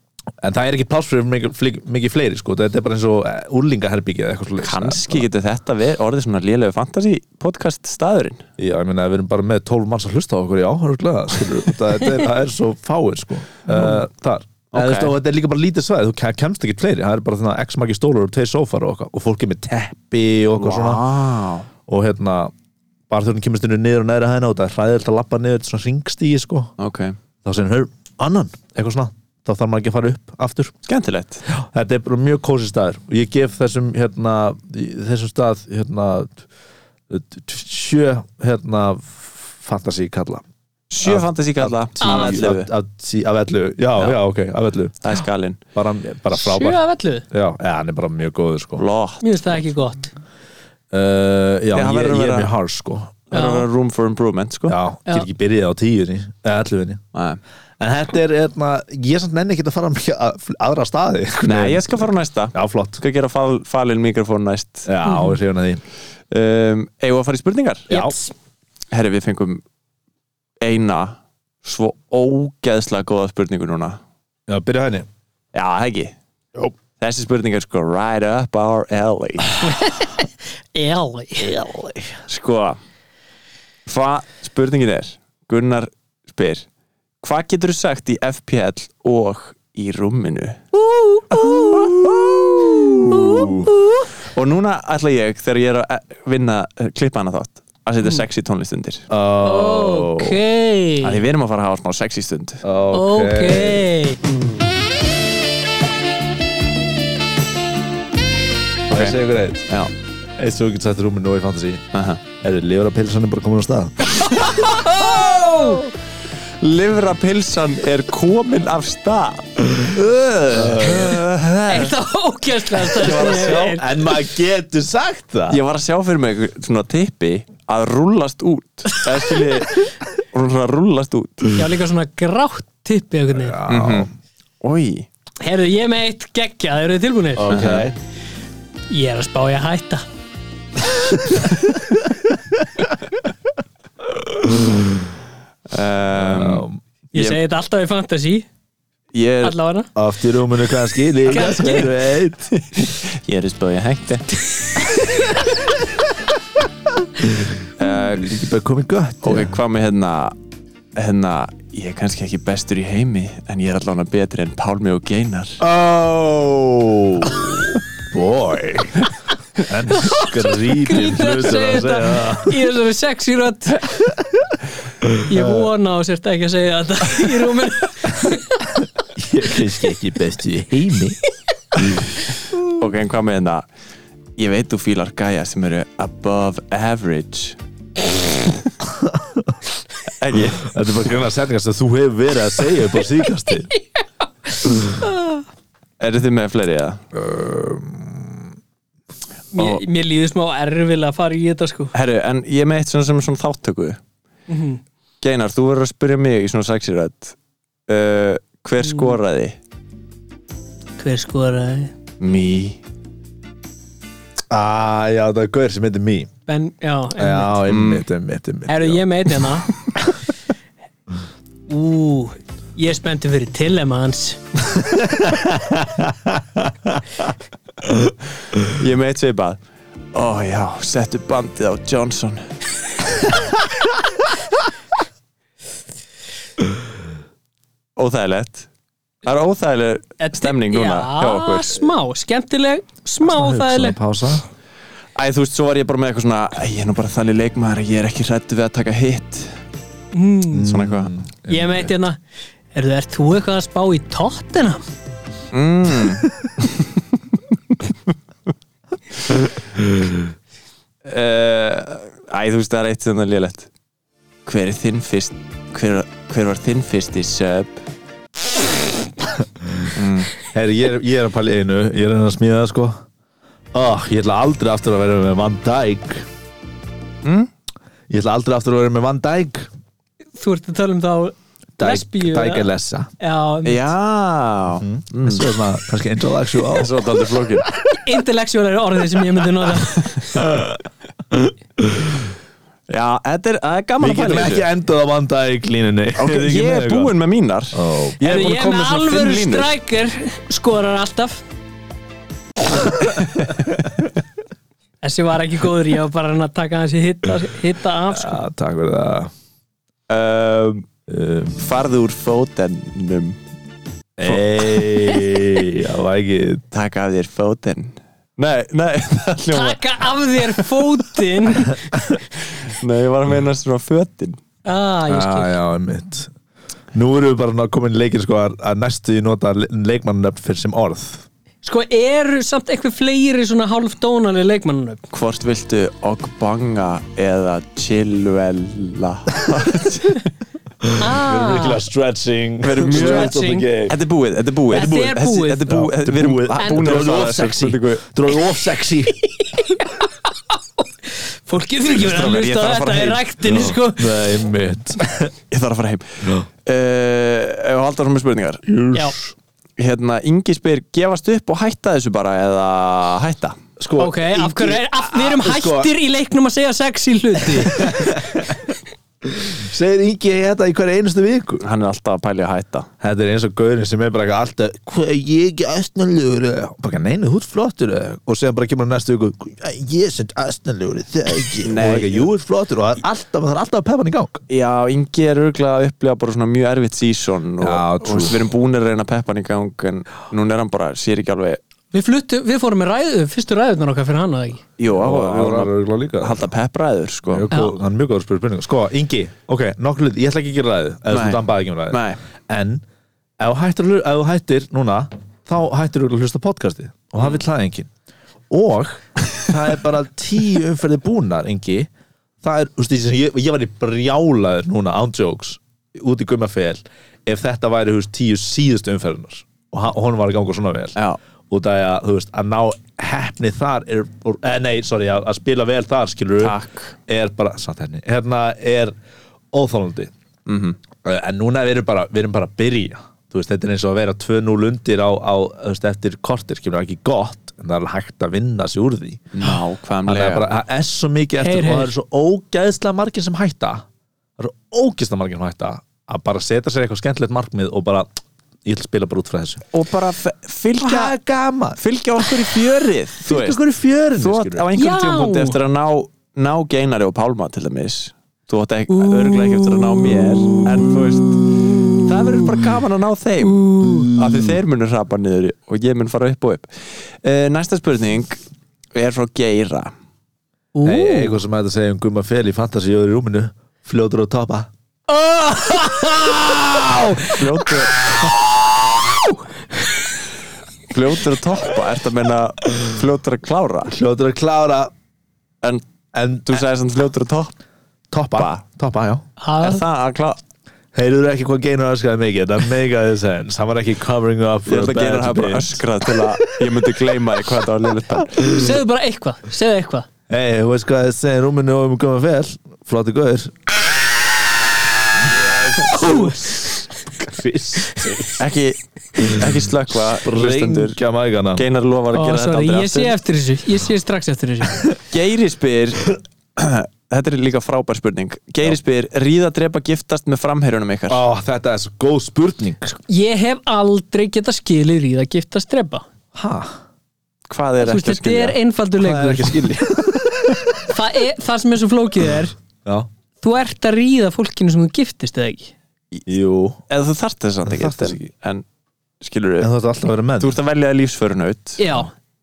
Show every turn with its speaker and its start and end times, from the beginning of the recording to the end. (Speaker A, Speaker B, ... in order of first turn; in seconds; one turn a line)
Speaker A: 0.4-5.3
Speaker B: 4.6-8.4
Speaker A: 8.6-21.0
Speaker B: 13.7-14.0
Speaker B: 14.7-15.2
Speaker B: 20.6-21.7
Speaker A: 21.9-22.5
Speaker A: 23.1-26.7
Speaker B: 26.8-27.2
Speaker A: 27.4-30.7
Speaker B: 30.9-31.4
Speaker A: 31.5-36.4
Speaker A: 37.1-40.4
Speaker B: 40.9-42.7
Speaker A: 41.0-45.1
Speaker C: 42.0-42.4
Speaker B: 45.0-45.6
Speaker A: 45.8-48.8
Speaker C: 46.3-47.3
Speaker B: 48.8-49.2
Speaker C: 49.2-50.1
Speaker A: 50.9-53.2
Speaker B: 51.7-52.5
Speaker B: 53.3-54.8
Speaker C: 53.3-53.7
Speaker A: 54.7-57.0
Speaker B: 57.1-57.4
Speaker A: 57.8-63.0
Speaker B: 61.4-64.9
Speaker A: 64.9-65.8
Speaker C: 65.0-65.4
Speaker B: 66.3-68.0
Speaker A: 67.9-68.2
Speaker C: 67.9-68.3
Speaker B: 68.9-69.6
Speaker B: 70.6-74.0
Speaker A: 74.5-75.1
Speaker B: 75.5-76.1
Speaker B: 77.0-79.8
Speaker C: 79.6-81.7
Speaker A: 81.5-82.1
Speaker B: 82.3-82.8
Speaker B: 83.9-86.7
Speaker B: 87.2-90.6
Speaker C: 90.8-91.9
Speaker A: 91.4-93.7
Speaker C: 92.8-94.1
Speaker B: 94.3-99.1
Speaker A: 99.1-100.4
Speaker C: 99.4-101.2
Speaker B: 101.0-102.6
Speaker A: 102.6-103.9
Speaker C: 102.9-104.4
Speaker B: 108.9-109.2
Speaker A: 108.9-109.7
Speaker A: 110.4-111.8
Speaker B: 111.9-112.2
Speaker A: 112.4-114.3
Speaker B: 114.3-115.8
Speaker C: 114.6-115.8
Speaker B: 116.6-119.7
Speaker A: 119.7-121.9
Speaker B: 120.6-121.9
Speaker C: 121.7-123.9
Speaker B: 123.0-123.6
Speaker A: 123.0-125.6
Speaker B: 125.5-131.6
Speaker C: 131.6-133.6
Speaker A: 133.3-134.1
Speaker B: 133.7-134.1
Speaker B: 134.6-135.1
Speaker C: 135.4-137.5
Speaker A: 137.4-138.0
Speaker B: 137.5-137.9
Speaker C: 138.9-140.0
Speaker A: 144.1-145.1
Speaker B: 145.7-147.4
Speaker A: 146.2-146.8
Speaker C: 147.1-148.5
Speaker B: 149.1-149.6
Speaker C: 149.4-149.9
Speaker A: 150.0-152.5
Speaker C: 151.3-151.9
Speaker B: 152.5-154.3
Speaker A: 157.2-157.6
Speaker B: 157.8-158.4
Speaker A: 158.2-159.6
Speaker B: 159.2-160.3
Speaker B: 161.0-165.6
Speaker A: 165.6-169.1
Speaker A: 169.6-172.7
Speaker C: 169.9-173.9
Speaker A: 175.0-175.7
Speaker C: 175.2-178.8
Speaker A: 179.2-181.2
Speaker A: 181.7-182.1
Speaker B: 182.6-183.7
Speaker B: 184.4-187.6
Speaker B: 188.3-188.5
Speaker A: 189.0-189.5
Speaker B: 190.2-190.7
Speaker A: 190.6-193.7
Speaker C: 194.5-195.4
Speaker B: 196.0-197.0
Speaker A: 197.1-198.5
Speaker C: 199.5-201.9
Speaker B: 199.6-199.8
Speaker B: 201.9-204.0
Speaker C: 204.5-204.8
Speaker B: 205.2-207.3
Speaker B: 207.9-209.6
Speaker C: 208.8-209.2
Speaker C: 211.0-211.9
Speaker B: 212.2-212.8
Speaker A: 214.5-216.3
Speaker C: 216.5-217.6
Speaker A: 217.2-219.0
Speaker B: 217.7-218.1
Speaker C: 218.7-219.7
Speaker C: 221.7-224.4
Speaker A: 224.8-227.0
Speaker B: 228.6-229.6
Speaker B: 230.1-232.5
Speaker B: 238.0-238.7
Speaker B: 239.2-241.8
Speaker C: 240.2-244.0
Speaker A: 243.2-244.5
Speaker B: 245.2-249.6
Speaker C: 250.1-250.7
Speaker A: 250.5-251.9
Speaker B: 250.6-251.1
Speaker C: 251.5-252.2
Speaker C: 252.7-254.8
Speaker B: 255.5-256.9
Speaker B: 261.1-263.7
Speaker B: 264.5-267.8
Speaker A: 269.6-269.9
Speaker B: 269.9-270.3
Speaker A: 270.4-273.0
Speaker A: 273.7-276.3
Speaker B: 277.2-277.5
Speaker A: 278.1-279.7
Speaker C: 280.4-283.9
Speaker A: 281.8-283.1
Speaker B: 283.6-285.5
Speaker A: 284.7-287.1
Speaker B: 286.7-287.7
Speaker C: 288.0-290.4
Speaker A: 290.4-292.3
Speaker B: 292.9-294.7
Speaker A: 294.0-297.1
Speaker B: 296.2-299.8
Speaker A: 297.7-298.3
Speaker C: 298.2-301.4
Speaker C: 305.0-308.4
Speaker A: 308.1-309.3
Speaker B: 310.1-310.9
Speaker A: 311.1-311.6
Speaker B: 311.6-313.4
Speaker A: 314.2-316.6
Speaker B: 314.2-315.4
Speaker B: 316.7-320.8
Speaker C: 319.5-322.0
Speaker B: 322.6-324.4
Speaker C: 324.7-325.6
Speaker A: 325.1-326.3
Speaker A: 326.9-331.3
Speaker C: 331.6-335.0
Speaker B: 335.1-340.3
Speaker A: 340.8-343.9
Speaker C: 341.0-341.8
Speaker B: 342.6-343.4
Speaker C: 342.9-343.7
Speaker B: 343.9-348.0
Speaker C: 344.7-345.7
Speaker A: 345.6-349.2
Speaker C: 346.6-347.3
Speaker C: 349.2-354.3
Speaker B: 351.9-353.3
Speaker A: 353.4-355.3
Speaker B: 355.5-358.6
Speaker A: 358.6-359.3
Speaker B: 359.8-363.6
Speaker A: 363.8-365.9
Speaker C: 364.0-368.3
Speaker A: 367.5-368.6
Speaker A: 369.2-371.6
Speaker B: 371.6-372.9
Speaker A: 373.0-384.4
Speaker B: 381.6-382.3
Speaker B: 384.5-391.6
Speaker A: 387.6-388.5
Speaker C: 391.9-394.6
Speaker B: 394.8-397.5
Speaker A: 394.9-396.4
Speaker A: 397.3-402.8
Speaker B: 401.1-402.2
Speaker A: 403.4-407.9
Speaker A: 408.5-411.9
Speaker A: 412.4-421.0
Speaker A: 421.5-428.9
Speaker B: 426.4-426.9
Speaker A: 429.5-430.1
Speaker B: 430.5-430.8
Speaker A: 431.0-439.5
Speaker B: 439.4-440.4
Speaker A: 440.1-443.9
Speaker C: 441.4-441.9
Speaker A: 444.4-448.1
Speaker A: 448.6-449.6
Speaker B: 449.7-451.2
Speaker A: 450.8-451.8
Speaker B: 451.8-453.6
Speaker A: 453.2-454.7
Speaker B: 454.2-468.4
Speaker C: 454.8-455.6
Speaker C: 458.9-460.7
Speaker C: 463.4-464.1
Speaker A: 463.9-464.6
Speaker B: 468.9-469.9
Speaker C: 470.8-471.4
Speaker A: 470.8-474.7
Speaker C: 475.1-477.5
Speaker A: 476.5-477.2
Speaker B: 477.2-478.3
Speaker C: 479.2-479.9
Speaker B: 480.9-483.9
Speaker A: 483.9-484.9
Speaker A: 486.1-486.6
Speaker B: 486.5-487.6
Speaker A: 488.1-489.2
Speaker B: 488.4-488.6
Speaker C: 489.4-489.8
Speaker B: 489.6-490.4
Speaker A: 490.9-496.1
Speaker B: 494.7-498.7
Speaker C: 498.4-500.1
Speaker A: 500.3-503.6
Speaker A: 505.4-508.4
Speaker C: 505.9-506.3
Speaker B: 508.4-511.0
Speaker A: 509.2-509.5
Speaker A: 510.2-511.6
Speaker B: 511.6-513.1
Speaker C: 512.1-514.9
Speaker B: 515.1-521.2
Speaker A: 521.1-523.0
Speaker C: 523.1-526.0
Speaker A: 526.3-526.8
Speaker B: 527.5-528.6
Speaker C: 527.8-529.6
Speaker A: 529.0-530.8
Speaker C: 530.9-532.5
Speaker C: 533.4-535.7
Speaker A: 536.3-536.8
Speaker B: 536.9-538.6
Speaker A: 537.6-538.3
Speaker B: 539.2-539.7
Speaker A: 539.6-540.6
Speaker B: 540.4-541.8
Speaker C: 541.8-542.1